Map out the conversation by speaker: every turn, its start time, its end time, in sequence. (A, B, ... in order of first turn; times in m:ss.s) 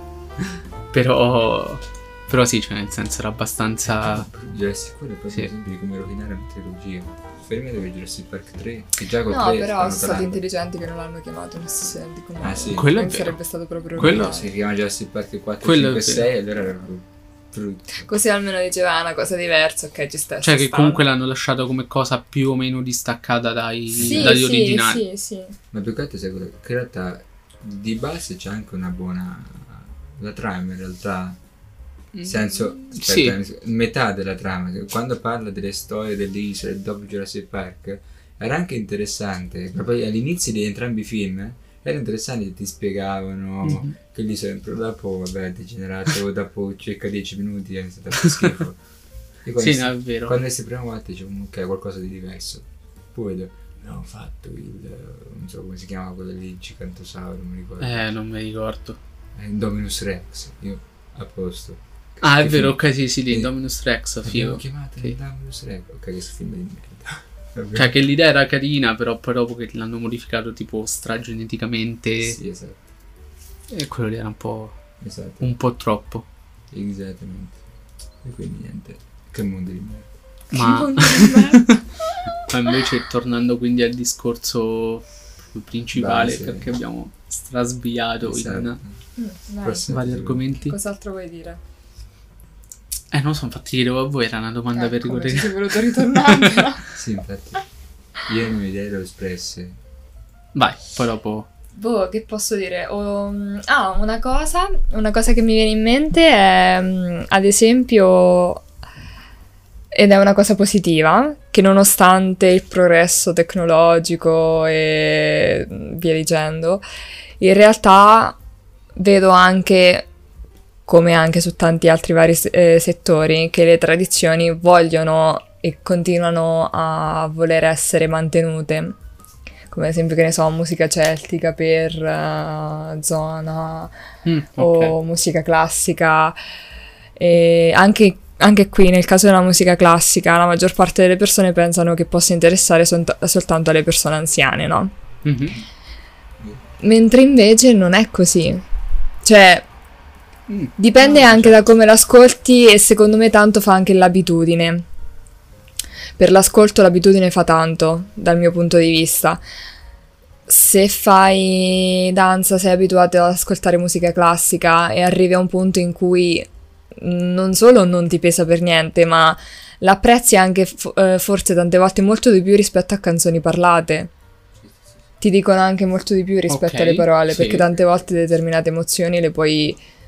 0:00.9-0:04.3 A
0:03.9-0:10.4 B
0:09.3-0:14.5 C
0:12.4-0:13.0 B
0:12.7-0:13.4 A
0:14.0-0:14.4 A
0:14.0-0:18.1 B
0:15.6-0:16.3 A
0:18.0-0:21.0 C
0:20.4-0:25.0 A
0:23.9-0:24.4 B
0:23.9-0:25.6 C
0:25.7-0:31.4 B
0:32.2-0:33.4 A
0:32.2-0:48.8 B
0:43.7-0:44.0 A
0:49.4-0:58.1 B
0:49.6-0:50.4 A
0:57.8-0:59.0 A
0:59.4-1:03.5 B
1:02.2-1:05.2 A
1:04.2-1:07.9 B
1:07.8-1:12.4 A
1:12.2-1:12.8 B
1:13.7-1:14.8 A
1:15.0-1:15.5 B
1:15.4-1:16.3 A
1:16.7-1:17.6 B
1:18.2-1:20.1 B
1:20.5-1:22.2 C
1:20.5-1:21.8 A
1:22.4-1:28.8 A
1:25.9-1:26.7 B
1:28.2-1:29.0 B
1:29.2-1:29.9 C
1:29.6-1:30.6 B
1:29.9-1:30.8 A
1:30.6-1:31.6 C
1:33.1-1:36.7 A
1:34.7-1:36.8 C
1:36.9-1:37.6 B
1:38.2-1:39.8 B
1:40.5-1:41.5 A
1:41.8-1:48.6 C
1:49.9-1:56.8 C
1:57.4-1:58.4 C
1:59.0-2:00.1 C
2:00.9-2:09.0 C
2:09.7-2:13.9 C
2:14.2-2:15.0 A
2:14.6-2:16.4 C
2:17.2-2:24.9 C
2:25.2-2:25.6 A
2:26.8-2:28.6 C
2:29.2-2:29.7 C
2:30.5-2:31.6 A
2:30.8-2:34.9 C
2:36.2-2:39.4 C
2:40.5-2:54.1 C
2:55.2-2:59.8 C
2:56.5-2:57.7 A